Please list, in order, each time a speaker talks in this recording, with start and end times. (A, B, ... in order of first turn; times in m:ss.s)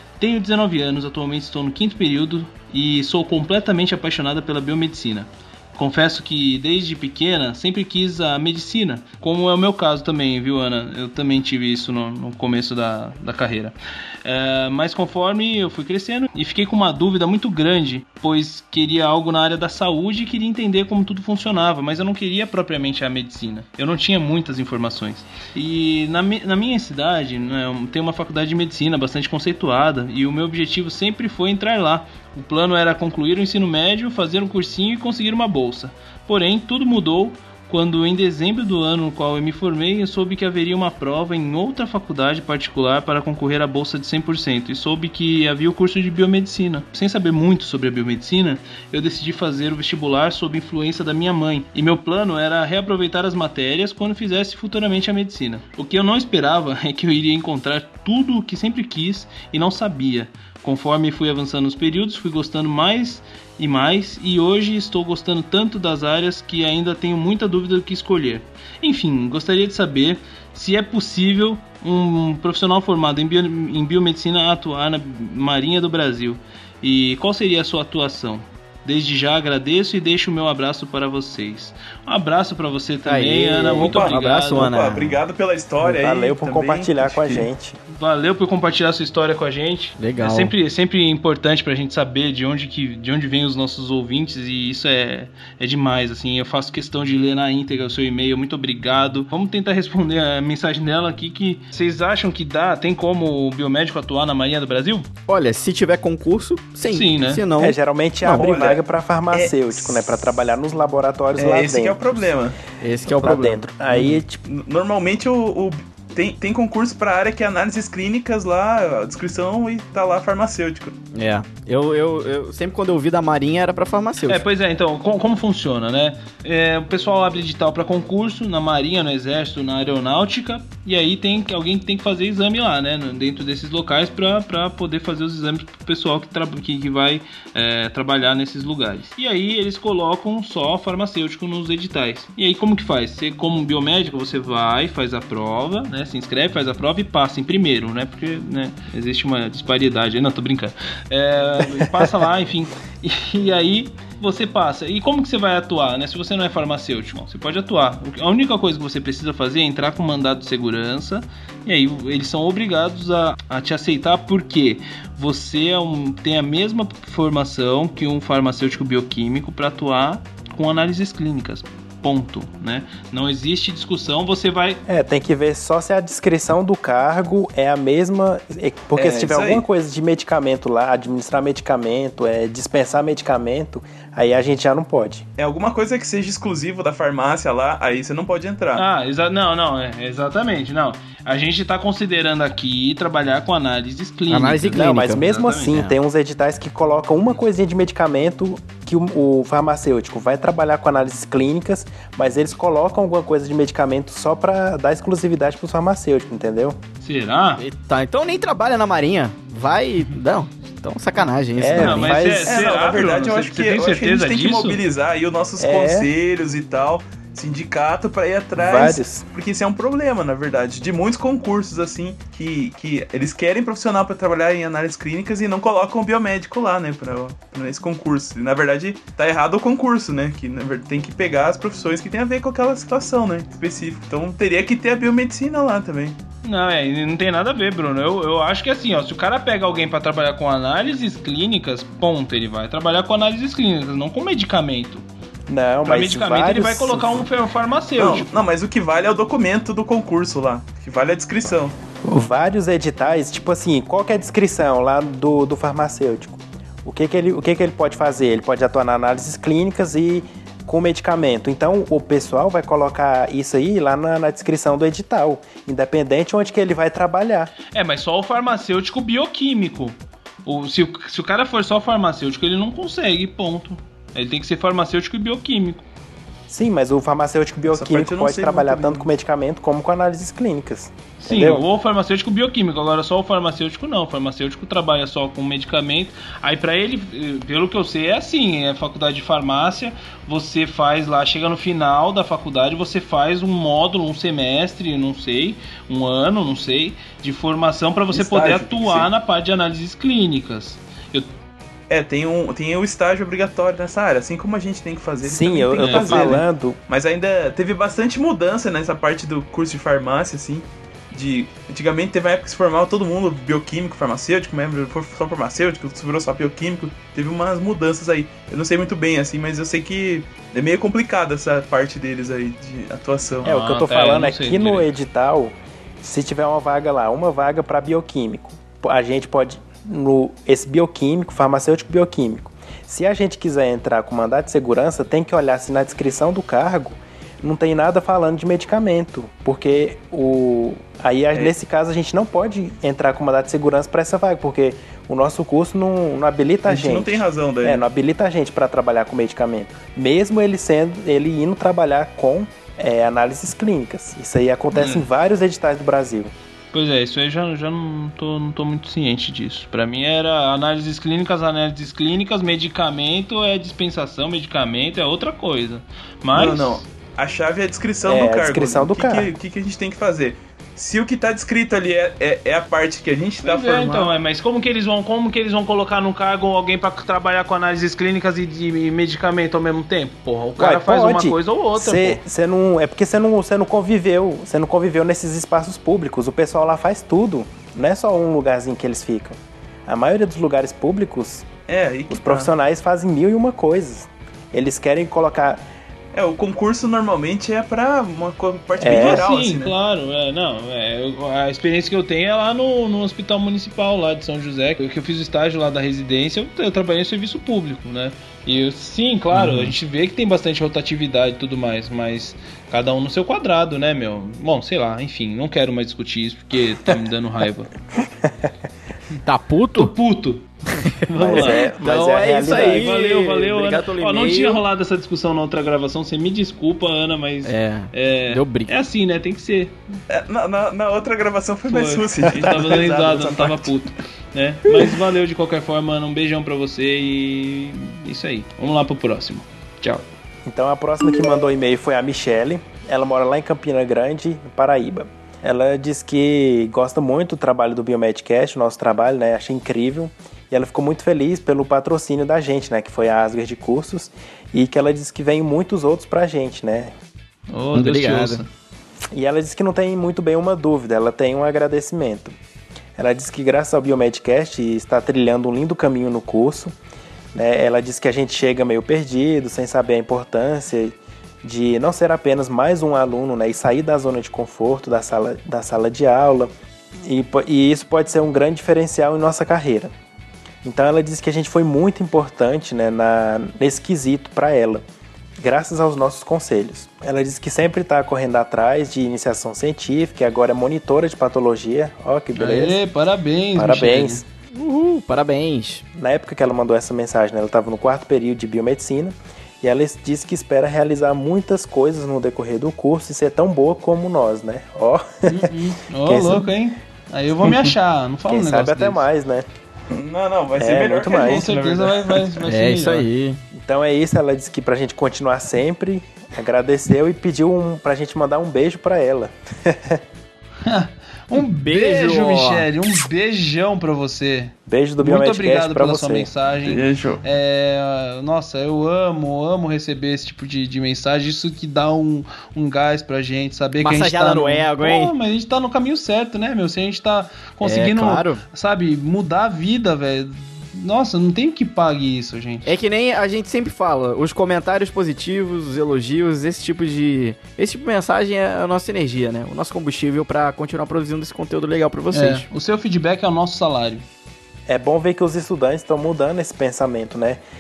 0:00.2-1:24.7 A
1:23.0-1:25.2 B
1:23.8-1:27.5 C
1:25.8-1:27.8 D
1:27.9-1:45.1 A
1:30.0-1:30.5 B
1:45.3-1:48.5 B
1:46.9-1:47.4 A
1:47.6-1:52.3 D
1:48.3-1:50.1 C
1:51.3-1:52.6 C
1:52.8-1:54.2 B
1:53.0-1:54.4 D
1:54.5-2:00.9 C
2:01.1-2:04.4 B
2:04.3-2:54.8 A
2:54.9-3:05.2 D
2:59.0-2:59.6 C
3:05.4-3:08.8 C
3:08.8-3:15.8 A
3:14.3-3:16.0 B
3:14.7-3:26.8 D
3:27.0-3:27.6 A
3:27.6-3:32.2 B
3:31.6-3:32.7 D
3:31.8-3:34.8 A
3:32.5-3:56.2 C
3:35.6-3:36.1 D
3:38.6-3:39.2 D
3:56.4-4:05.0 A
4:05.5-4:07.3 D
4:05.8-4:08.3 A
4:08.0-4:11.8 C
4:12.0-4:27.5 D
4:27.7-4:35.8 A
4:36.5-4:41.7 D
4:37.6-4:39.1 C
4:41.2-5:01.3 A
4:58.2-4:58.6 D
4:58.2-4:59.1 C
5:01.9-5:23.5 C
5:05.2-5:06.8 D
5:05.8-5:06.4 A
5:23.4-5:24.9 A
5:23.4-5:56.3 D
5:46.7-5:47.8 C
5:54.7-5:55.1 A
5:56.7-6:06.8 A
6:06.3-6:14.1 C
6:08.0-6:09.3 D
6:13.4-6:22.2 A
6:20.6-6:31.5 D
6:31.7-6:32.5 C
6:32.1-6:35.6 D
6:36.1-6:39.8 C
6:38.8-6:39.3 D
6:38.9-6:57.7 A
6:49.4-6:49.7 B
6:58.0-6:58.5 D
6:59.2-7:00.0 B
6:59.8-7:09.8 A
7:00.7-7:04.6 B
7:01.2-7:02.9 D
7:07.4-7:08.8 B
7:10.1-7:13.7 C
7:11.7-7:20.0 A
7:20.5-7:36.9 D
7:37.5-7:38.5 A
7:37.7-7:38.4 B
7:39.1-7:42.3 D
7:43.0-7:46.8 D
7:47.3-7:56.5 D
7:57.0-7:59.9 D
8:00.6-8:04.8 D
8:05.4-8:12.8 D
8:12.4-8:14.2 A
8:13.6-8:14.3 D
8:14.5-8:15.9 B
8:16.0-8:25.5 D
8:25.3-8:29.0 A
8:26.0-8:26.5 D
8:28.3-8:29.5 D
8:29.9-8:32.4 C
8:30.6-8:31.5 D
8:31.1-8:33.1 A
8:32.5-8:33.4 B
8:33.5-8:40.0 D
8:40.6-9:02.7 A
8:41.4-8:42.7 B
8:44.7-8:46.3 D
8:46.6-8:47.2 C
8:53.8-8:55.1 B
8:57.6-8:58.4 B
9:02.6-9:12.5 B
9:12.1-9:14.0 A
9:14.7-9:17.4 D